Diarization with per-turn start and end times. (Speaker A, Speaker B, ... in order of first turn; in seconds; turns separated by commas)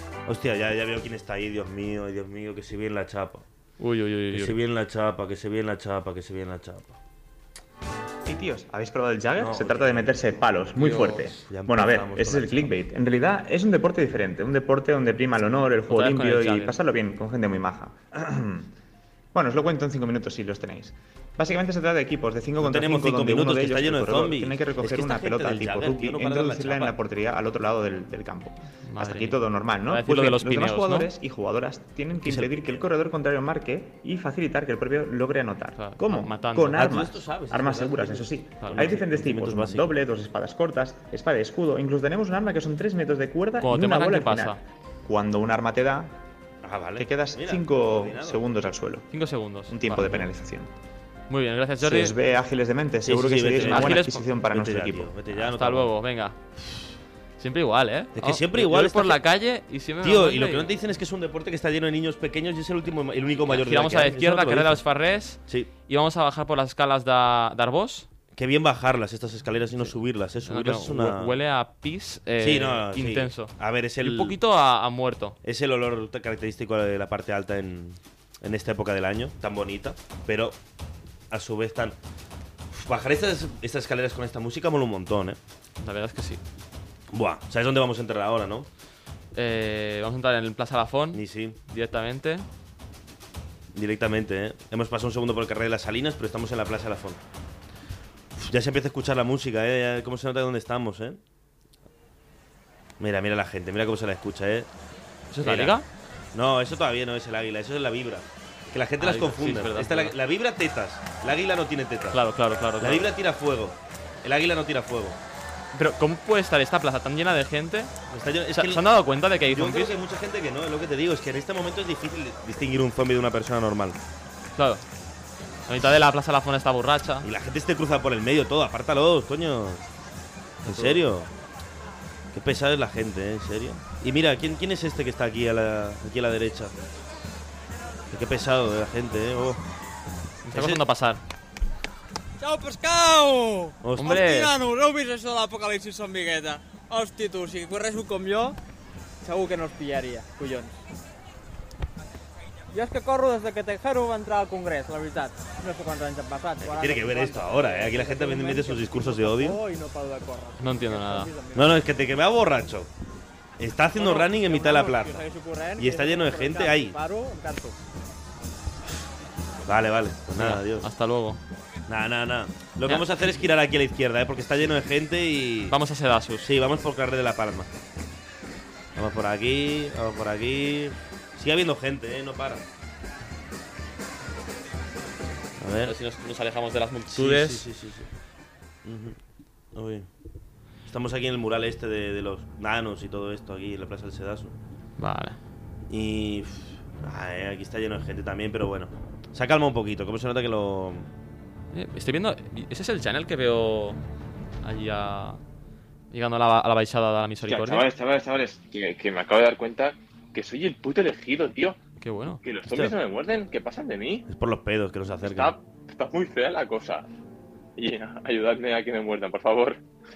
Speaker A: 0.3-3.5, Speaker B: 3.8-4.6, Speaker A: 4.3-7.0, Speaker C: 8.2-18.7, Speaker A: 9.4-12.7, Speaker B: 10.8-11.3, Speaker B: 15.9-16.8, Speaker C: 19.3-46.2, Speaker A: 22.6-26.9, Speaker B: 28.8-31.1, Speaker A: 32.2-32.8, Speaker B: 35.8-36.8, Speaker A: 36.7-39.9, Speaker B: 38.6-38.9, Speaker B: 43.6-44.6, Speaker A: 46.6-48.4, Speaker C: 47.0-49.1, Speaker B: 49.1-50.3, Speaker C: 49.7-50.7, Speaker B: 51.3-52.1, Speaker C: 51.8-55.1, Speaker A: 53.0-55.9, Speaker B: 53.6-54.3, Speaker B: 55.3-56.4, Speaker B: 57.4-60.7, Speaker A: 58.1-59.2, Speaker A: 60.0-64.8, Speaker B: 63.5-68.1, Speaker A: 68.3-71.3, Speaker B: 70.5-75.4, Speaker A: 72.4-74.4, Speaker A: 75.4-80.6, Speaker A: 81.3-82.0, Speaker A: 82.7-85.4, Speaker B: 85.8-86.4, Speaker A: 87.1-88.7, Speaker B: 89.3-92.5, Speaker A: 91.1-91.6, Speaker A: 93.7-97.2, Speaker A: 98.4-101.2, Speaker A: 103.0-104.7, Speaker B: 105.3-105.8, Speaker A: 105.4-105.8, Speaker A: 106.3-112.2, Speaker B: 109.0-110.2, Speaker B: 112.1-113.1, Speaker A: 112.8-115.2, Speaker B: 115.7-117.9, Speaker A: 118.1-118.8, Speaker B: 118.5-119.9, Speaker A: 119.5-124.0, Speaker B: 124.6-124.8, Speaker B: 125.7-127.3, Speaker A: 127.2-129.9, Speaker A: 130.6-131.3, Speaker B: 130.7-131.0, Speaker A: 132.3-136.7, Speaker A: 138.1-139.6, Speaker B: 140.4-141.2, Speaker A: 140.5-140.8, Speaker D: 142.4-148.6, Speaker A: 143.8-144.3, Speaker B: 144.0-144.5, Speaker D: 149.2-150.8, Speaker D: 152.7-161.9, Speaker A: 156.6-159.6, Speaker B: 160.6-161.3, Speaker A: 161.5-162.9, Speaker A: 163.6-165.2, Speaker D: 163.9-167.8, Speaker A: 165.8-167.0, Speaker A: 169.7-170.9, Speaker B: 170.4-171.4, Speaker A: 171.9-175.8, Speaker B: 172.9-173.4, Speaker B: 175.7-176.5, Speaker A: 176.4-177.7, Speaker A: 179.0-182.7, Speaker A: 185.6-185.9, Speaker B: 185.8-187.6, Speaker A: 187.1-188.1, Speaker A: 188.8-189.2, Speaker A: 189.8-190.1, Speaker A: 190.9-194.5, Speaker B: 195.0-195.4, Speaker A: 195.9-201.1, Speaker B: 201.7-204.0, Speaker B: 204.6-205.4, Speaker B: 206.1-207.9, Speaker E: 207.5-211.8, Speaker B: 212.0-212.4, Speaker E: 212.4-214.2, Speaker A: 212.7-213.0, Speaker A: 214.3-215.6, Speaker E: 215.2-217.1, Speaker E: 217.8-219.8